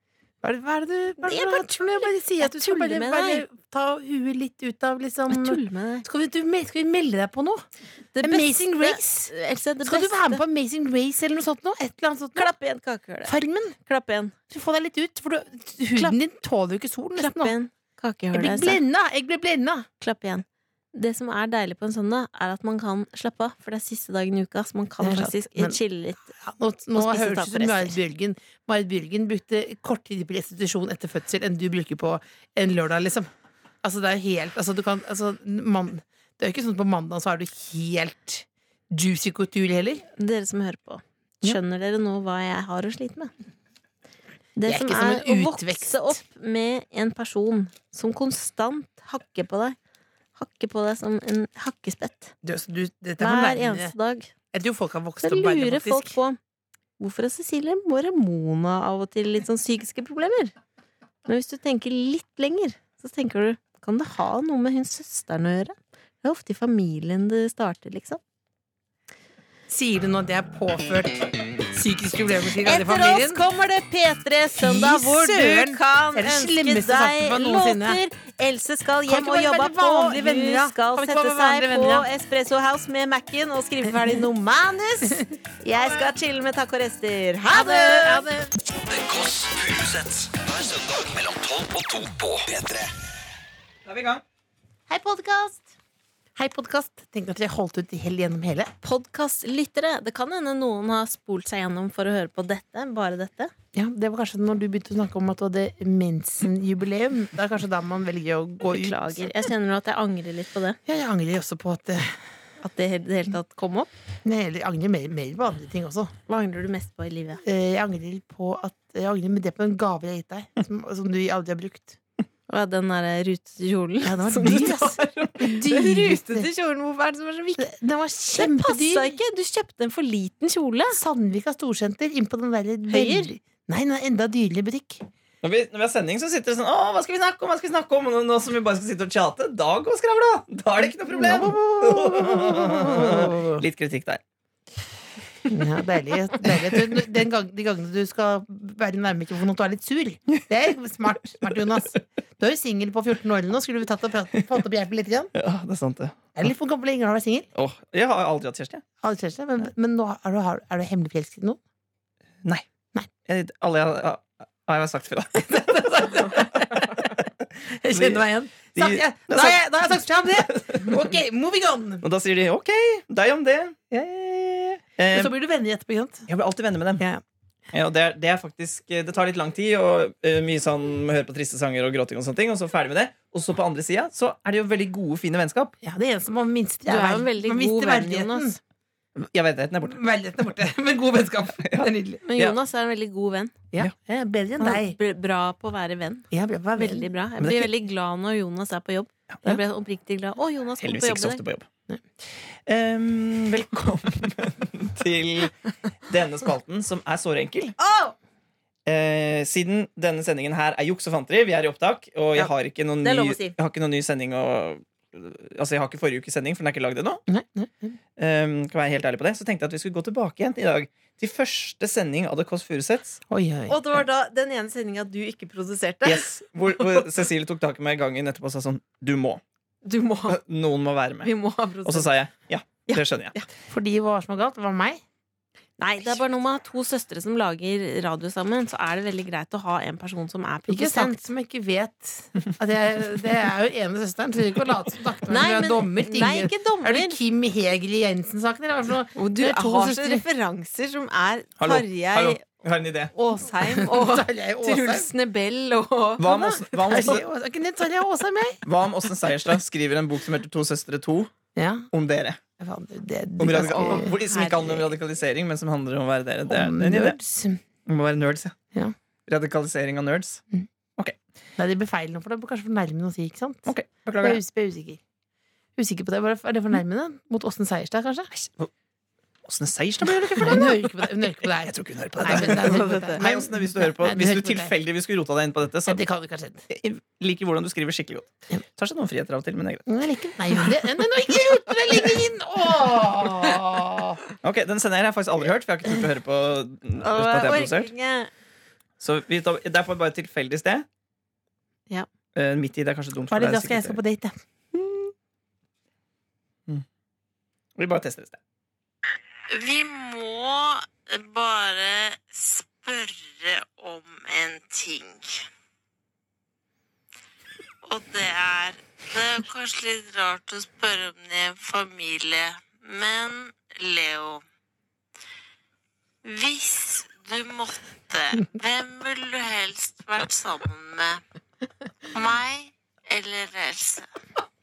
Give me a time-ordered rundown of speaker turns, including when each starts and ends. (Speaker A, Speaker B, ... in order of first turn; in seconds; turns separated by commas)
Speaker A: 0.4-7.6, Speaker B: 1.2-3.4, Speaker B: 5.3-6.0, Speaker B: 8.1-10.4, Speaker A: 8.2-9.3, Speaker A: 9.8-12.5, Speaker B: 12.3-13.3, Speaker A: 13.2-13.8, Speaker B: 13.8-14.3, Speaker A: 14.5-17.5, Speaker B: 17.2-18.8, Speaker A: 18.3-19.9, Speaker B: 20.0-26.3, Speaker A: 25.0-33.3, Speaker B: 26.9-27.9, Speaker A: 33.8-40.0, Speaker B: 40.2-43.3, Speaker B: 44.5-49.8, Speaker A: 44.6-46.2, Speaker B: 50.4-52.3, Speaker A: 52.4-53.9, Speaker B: 53.2-54.3, Speaker A: 54.5-56.2, Speaker B: 55.2-56.4, Speaker B: 57.0-60.5, Speaker B: 61.2-68.2, Speaker A: 69.7-73.4, Speaker B: 72.7-88.3, Speaker A: 74.5-78.0, Speaker A: 79.1-82.1, Speaker A: 85.1-86.1, Speaker A: 87.5-88.5, Speaker C: 88.9-92.9, Speaker D: 93.8-94.2, Speaker A: 94.9-95.7, Speaker A: 96.3-98.7, Speaker B: 98.8-103.5, Speaker A: 103.7-109.5, Speaker B: 108.7-110.8, Speaker A: 110.8-112.2, Speaker B: 112.6-113.9, Speaker A: 114.2-116.1, Speaker B: 116.3-117.4, Speaker A: 117.4-122.0, Speaker B: 122.5-127.7, Speaker A: 124.0-126.5, Speaker A: 127.6-129.2, Speaker B: 128.3-131.0, Speaker A: 130.9-135.0, Speaker B: 132.9-133.3, Speaker D: 135.4-144.2, Speaker A: 141.1-143.6, Speaker A: 145.5-155.3, Speaker D: 155.3-156.3, Speaker A: 156.3-157.5, Speaker D: 157.5-158.8, Speaker A: 159.0-161.6, Speaker D: 163.2-167.3, Speaker A: 165.4-167.0, Speaker A: 167.8-172.0, Speaker D: 167.9-171.0, Speaker D: 172.0-174.2, Speaker A: 173.9-176.3, Speaker D: 174.8-175.3, Speaker D: 176.3-177.1, Speaker D: 177.7-185.7, Speaker A: 185.8-188.6, Speaker B: 186.9-188.6, Speaker D: 189.2-190.0, Speaker A: 189.9-192.2, Speaker D: 191.6-192.6, Speaker B: 192.2-193.6, Speaker A: 193.7-195.0, Speaker B: 194.6-201.4, Speaker A: 196.3-197.1, Speaker D: 197.4-197.7, Speaker D: 200.8-201.7, Speaker D: 202.5-207.7, Speaker B: 207.8-208.1, Speaker D: 208.8-217.2, Speaker B: 213.0-213.6, Speaker A: 217.3-217.9, Speaker D: 218.2-223.2, Speaker A: 223.3-223.8, Speaker B: 223.7-226.3, Speaker D: 226.0-229.4, Speaker B: 229.8-230.4, Speaker D: 230.3-231.3, Speaker B: 231.2-232.1, Speaker D: 231.8-233.4, Speaker B: 232.9-233.4, Speaker A: 233.7-235.0, Speaker B: 235.8-241.2, Speaker A: 240.7-250.2, Speaker B: 245.3-247.2, Speaker B: 249.2-252.4, Speaker D: 251.6-253.1, Speaker B: 253.1-257.2, Speaker A: 253.6-255.1, Speaker D: 256.2-257.2, Speaker A: 256.9-258.6, Speaker D: 258.6-261.3, Speaker A: 261.5-261.9, Speaker D: 261.9-262.4, Speaker A: 262.6-264.1, Speaker D: 263.4-267.2, Speaker B: 263.7-264.9, Speaker A: 266.5-267.6, Speaker D: 267.9-268.6, Speaker D: 269.3-270.4, Speaker A: 271.6-273.7, Speaker D: 273.7-274.4, Speaker A: 274.2-275.0, Speaker A: 275.8-278.3, Speaker D: 278.3-278.7, Speaker D: 279.4-286.0, Speaker A: 280.4-284.7, Speaker B: 282.3-283.2, Speaker A: 285.9-286.6, Speaker D: 286.7-289.8, Speaker A: 289.9-294.2, Speaker D: 294.4-297.9, Speaker B: 297.0-298.3, Speaker D: 299.0-300.9, Speaker D: 302.3-304.0, Speaker A: 303.3-304.4, Speaker D: 304.7-305.1, Speaker D: 307.8-308.4, Speaker B: 309.5-315.4, Speaker B: 317.8-324.4, Speaker B: 326.2-331.2, Speaker B: 332.1-334.1